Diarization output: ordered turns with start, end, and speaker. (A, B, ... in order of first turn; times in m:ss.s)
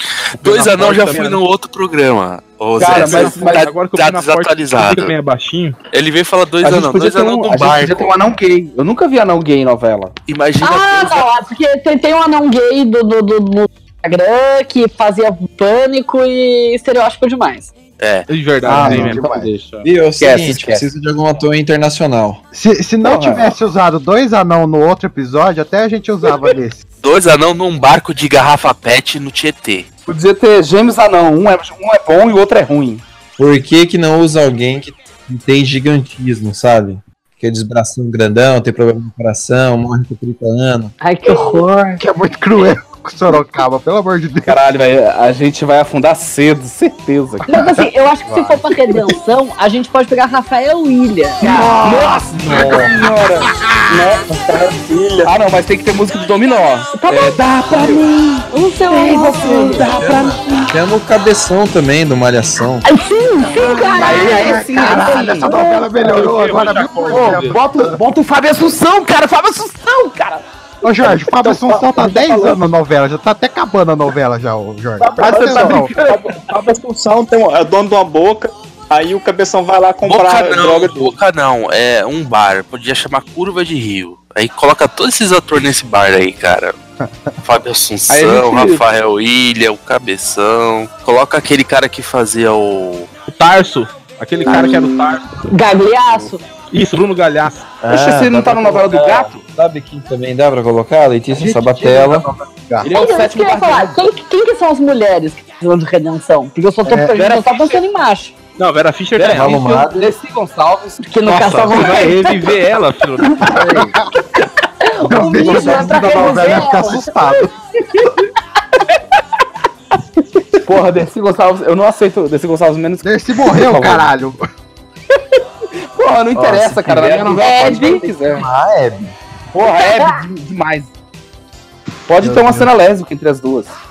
0:00.4-0:01.4 A
0:00.4-0:05.1 B
0:02.8-0:03.7 C
0:02.8-0:05.8 A
0:05.9-0:08.1 B
0:06.6-0:10.2 C
0:10.3-0:11.3 B
0:10.6-0:17.7 D
0:18.0-0:18.3 B
0:18.3-0:19.9 A
0:18.6-0:19.5 C
0:18.6-0:19.5 E
0:19.8-0:22.4 F
0:20.2-0:20.8 C
0:22.5-0:26.8 E
0:23.0-0:23.5 C
0:27.0-0:29.9 B
0:30.0-0:33.0 C
0:33.4-0:40.9 F
0:41.0-0:42.0 D
0:42.0-0:44.6 E
0:44.4-0:47.4 C
0:47.5-0:51.8 D
0:48.2-0:48.6 E
0:51.4-0:54.3 C
0:51.4-0:52.7 E
0:54.3-0:55.3 G
0:55.2-1:00.7 C
0:56.9-0:57.4 D
0:57.7-0:58.0 F
0:58.5-0:59.8 D
0:59.7-1:02.8 F
1:02.8-1:05.7 D
1:03.6-1:07.9 E
1:03.7-1:06.1 C
1:06.0-1:07.6 A
1:07.1-1:10.4 C
1:10.8-1:15.9 E
1:11.0-1:12.5 C
1:15.0-1:21.1 G
1:15.2-1:16.4 C
1:15.3-1:15.8 A
1:20.0-1:26.7 B
1:27.4-1:33.1 B
1:28.1-1:28.8 C
1:33.3-1:35.3 A
1:34.4-1:36.4 D
1:36.7-1:37.7 A
1:37.8-1:42.3 F
1:37.8-1:39.4 C
1:41.3-1:42.9 E
1:42.8-1:44.1 C
1:42.9-1:48.3 D
1:46.8-1:47.2 E
1:47.1-1:47.8 C
1:48.6-1:49.6 A
1:49.2-1:51.0 C
1:49.2-1:50.1 F
1:51.0-1:52.4 D
1:51.2-1:53.8 A
1:53.4-1:54.0 C
1:53.5-1:54.0 E
1:54.8-1:57.1 D
1:55.0-1:57.5 E
1:55.3-1:56.5 C
2:00.6-2:04.1 C
2:03.0-2:04.4 E
2:06.0-2:08.5 C
2:06.3-2:09.1 F
2:07.3-2:08.0 D
2:09.5-2:10.9 C
2:09.8-2:10.2 D
2:12.1-2:13.8 C
2:12.2-2:12.7 E